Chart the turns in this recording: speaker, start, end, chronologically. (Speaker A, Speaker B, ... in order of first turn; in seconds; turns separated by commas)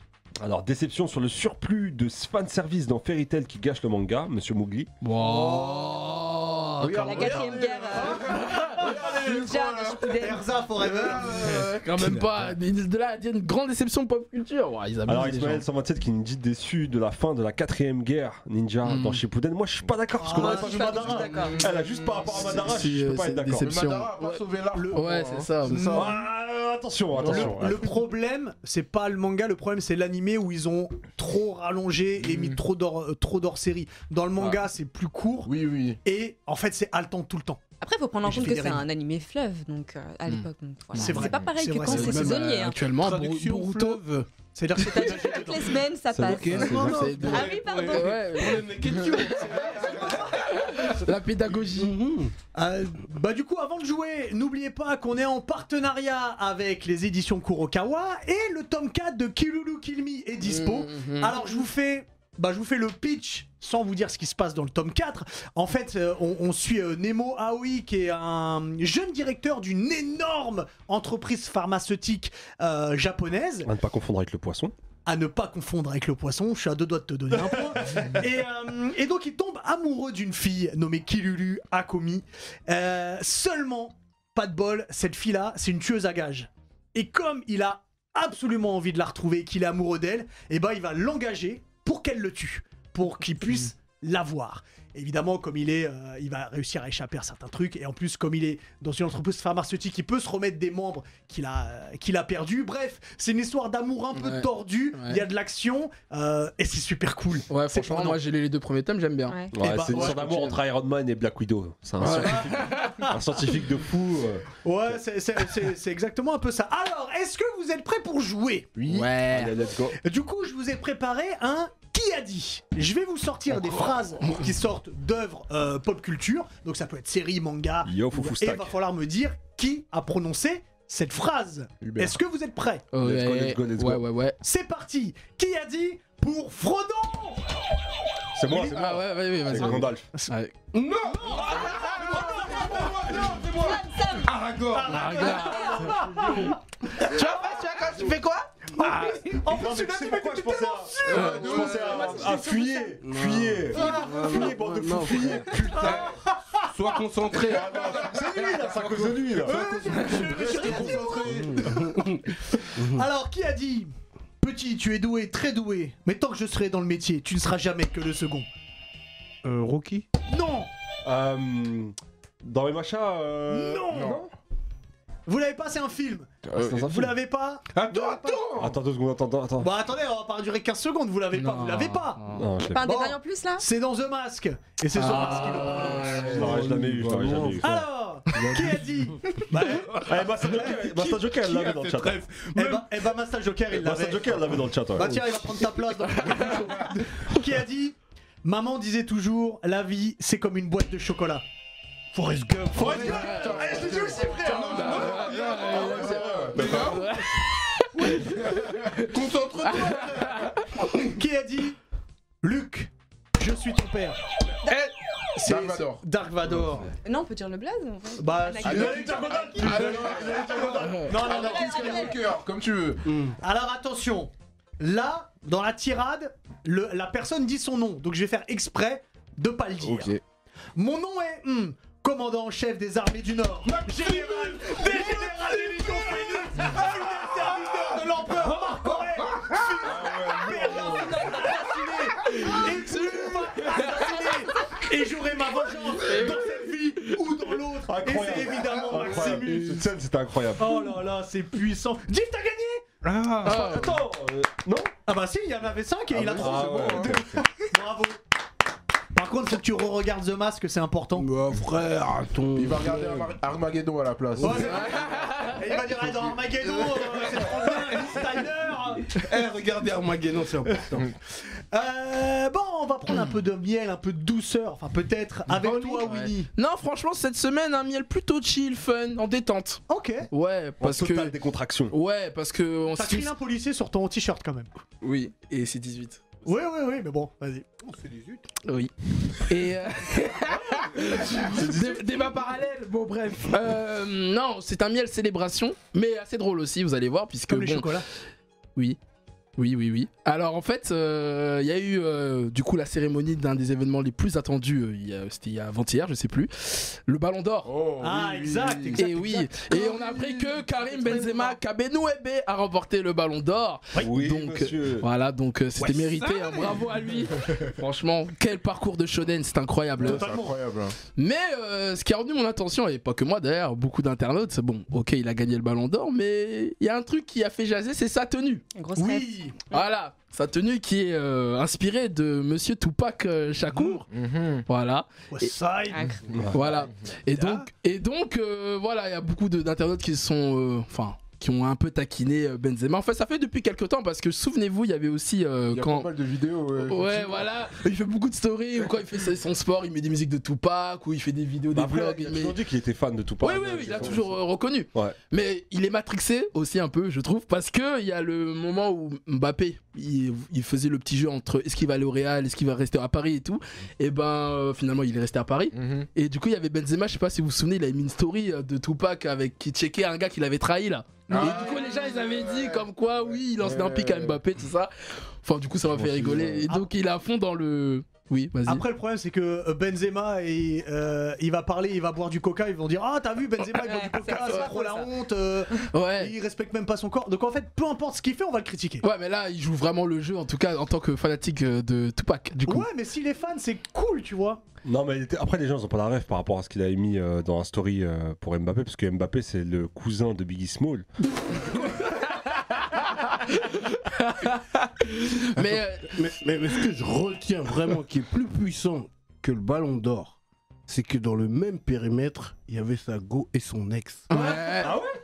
Speaker A: 0.4-4.9, Speaker B: 5.0-7.5, Speaker C: 6.9-11.9, Speaker D: 6.9-10.4, Speaker E: 7.1-7.7, Speaker F: 8.0-9.2, Speaker B: 8.4-8.8, Speaker F: 10.1-11.7, Speaker B: 11.5-15.6, Speaker A: 15.1-23.8, Speaker B: 18.8-19.2, Speaker F: 20.2-21.5, Speaker D: 20.3-21.6, Speaker C: 21.2-22.7, Speaker B: 22.4-24.4, Speaker C: 23.6-26.0, Speaker F: 24.7-25.0, Speaker B: 24.9-26.1, Speaker F: 25.6-26.2, Speaker A: 25.9-27.9, Speaker C: 27.1-27.8, Speaker F: 27.2-37.6, Speaker C: 32.2-32.6, Speaker C: 35.5-36.0, Speaker D: 37.8-42.8, Speaker F: 38.2-38.9, Speaker B: 40.3-44.0, Speaker F: 40.9-42.4, Speaker E: 42.0-44.3, Speaker F: 44.5-45.8, Speaker D: 44.7-48.5, Speaker E: 46.1-50.3, Speaker B: 46.5-49.1, Speaker F: 49.2-50.9, Speaker B: 50.3-51.9, Speaker E: 51.5-52.3, Speaker F: 52.5-73.7, Speaker B: 60.4-61.4, Speaker A: 73.6-74.7, Speaker F: 75.0-108.2, Speaker A: 77.4-78.0, Speaker B: 104.1-105.2, Speaker B: 107.5-110.5, Speaker D: 109.3-109.6, Speaker A: 109.5-115.0, Speaker F: 109.6-110.5, Speaker B: 112.0-112.9, Speaker F: 112.0-113.2, Speaker F: 114.6-118.8, Speaker B: 118.8-119.6, Speaker A: 119.2-120.0, Speaker F: 120.0-132.8, Speaker A: 127.8-128.8, Speaker C: 131.8-132.2, Speaker B: 132.9-134.4, Speaker A: 133.0-134.0, Speaker F: 134.4-137.6, Speaker A: 138.3-140.1, Speaker F: 138.5-138.8, Speaker B: 138.7-140.5, Speaker F: 139.6-140.3, Speaker E: 140.7-145.2, Speaker F: 141.1-143.7, Speaker C: 143.1-143.3, Speaker D: 143.4-144.3, Speaker F: 144.7-147.8, Speaker B: 144.9-146.5, Speaker D: 145.3-146.2, Speaker B: 147.0-149.3, Speaker F: 148.7-152.8, Speaker A: 149.4-156.2, Speaker C: 151.0-152.3, Speaker B: 151.2-151.7, Speaker E: 153.0-163.1, Speaker F: 153.7-154.5, Speaker F: 155.4-157.0, Speaker C: 155.8-156.1, Speaker A: 157.3-160.9, Speaker C: 157.5-158.6, Speaker F: 159.4-168.5, Speaker E: 169.4-170.1, Speaker F: 170.3-170.7, Speaker A: 171.0-174.3, Speaker F: 173.5-174.2, Speaker C: 173.9-174.2, Speaker F: 175.3-178.5, Speaker C: 176.4-176.9, Speaker A: 176.5-177.2, Speaker E: 177.7-178.7, Speaker A: 178.6-179.7, Speaker F: 179.6-186.5, Speaker B: 181.3-182.5, Speaker A: 182.3-182.8, Speaker D: 182.7-183.7, Speaker B: 184.9-186.3, Speaker A: 185.0-187.8, Speaker E: 186.1-189.3, Speaker F: 187.6-190.8, Speaker A: 189.9-192.2, Speaker E: 190.7-192.9, Speaker F: 192.5-201.4, Speaker A: 193.7-195.4, Speaker B: 196.1-196.7, Speaker E: 202.1-203.4, Speaker A: 202.7-204.7, Speaker F: 202.8-205.4, Speaker C: 202.8-207.1, Speaker B: 203.1-203.6, Speaker B: 204.4-209.1, Speaker A: 206.1-207.0, Speaker C: 208.3-208.7, Speaker E: 209.0-210.6, Speaker B: 209.6-210.8, Speaker F: 210.9-211.8, Speaker F: 212.4-214.8, Speaker F: 215.3-216.9, Speaker C: 215.4-216.0, Speaker D: 217.0-219.5, Speaker F: 218.2-222.2, Speaker A: 218.6-221.1, Speaker C: 218.6-223.1, Speaker D: 221.2-222.2, Speaker E: 223.0-223.3, Speaker F: 223.4-230.1, Speaker C: 229.8-230.2, Speaker F: 230.8-249.8, Speaker E: 233.9-236.7, Speaker A: 239.8-241.5, Speaker B: 242.2-244.7, Speaker B: 245.9-247.2, Speaker A: 247.8-250.8, Speaker F: 250.6-252.9, Speaker E: 253.0-253.8, Speaker B: 253.4-254.0, Speaker A: 253.4-254.9, Speaker F: 255.1-258.2, Speaker A: 256.1-257.4, Speaker C: 256.2-257.2, Speaker F: 259.1-261.3, Speaker E: 261.1-263.4, Speaker C: 262.5-265.1, Speaker E: 264.4-264.9, Speaker F: 264.4-269.2, Speaker B: 264.6-265.6, Speaker E: 266.8-268.2, Speaker E: 269.1-271.1, Speaker F: 271.3-276.5, Speaker E: 275.5-276.1, Speaker B: 276.0-281.3, Speaker F: 279.9-280.3, Speaker A: 280.8-281.9, Speaker B: 281.9-283.3, Speaker F: 282.9-284.7, Speaker B: 285.0-286.4, Speaker F: 286.4-287.7, Speaker E: 287.8-288.5, Speaker B: 288.6-298.0, Speaker A: 291.5-292.0, Speaker F: 297.5-298.1, Speaker B: 299.6-307.7, Speaker C: 307.6-309.0, Speaker F: 308.0-311.5, Speaker B: 308.9-320.4, Speaker A: 314.0-315.1, Speaker C: 320.0-320.9, Speaker F: 320.0-320.5, Speaker B: 321.1-328.6, Speaker D: 328.7-329.8, Speaker F: 328.9-329.6, Speaker B: 329.7-334.1, Speaker F: 333.7-334.0, Speaker C: 334.1-334.7, Speaker B: 334.7-335.5, Speaker F: 335.3-336.2, Speaker D: 335.9-336.2, Speaker A: 336.3-336.6, Speaker B: 336.5-346.1, Speaker F: 337.3-337.7, Speaker C: 345.7-347.5, Speaker B: 346.8-352.6, Speaker A: 351.7-354.3, Speaker B: 353.4-374.9, Speaker C: 365.7-366.1, Speaker C: 371.3-372.9, Speaker C: 373.5-374.4, Speaker B: 375.4-378.8, Speaker C: 375.9-376.6, Speaker F: 378.6-389.0, Speaker D: 383.8-385.1, Speaker B: 384.3-384.7, Speaker B: 385.9-386.3, Speaker B: 389.0-392.9, Speaker F: 392.6-394.6, Speaker A: 394.8-401.1, Speaker B: 402.4-406.3, Speaker E: 405.6-414.4, Speaker B: 414.3-414.9, Speaker A: 414.3-415.1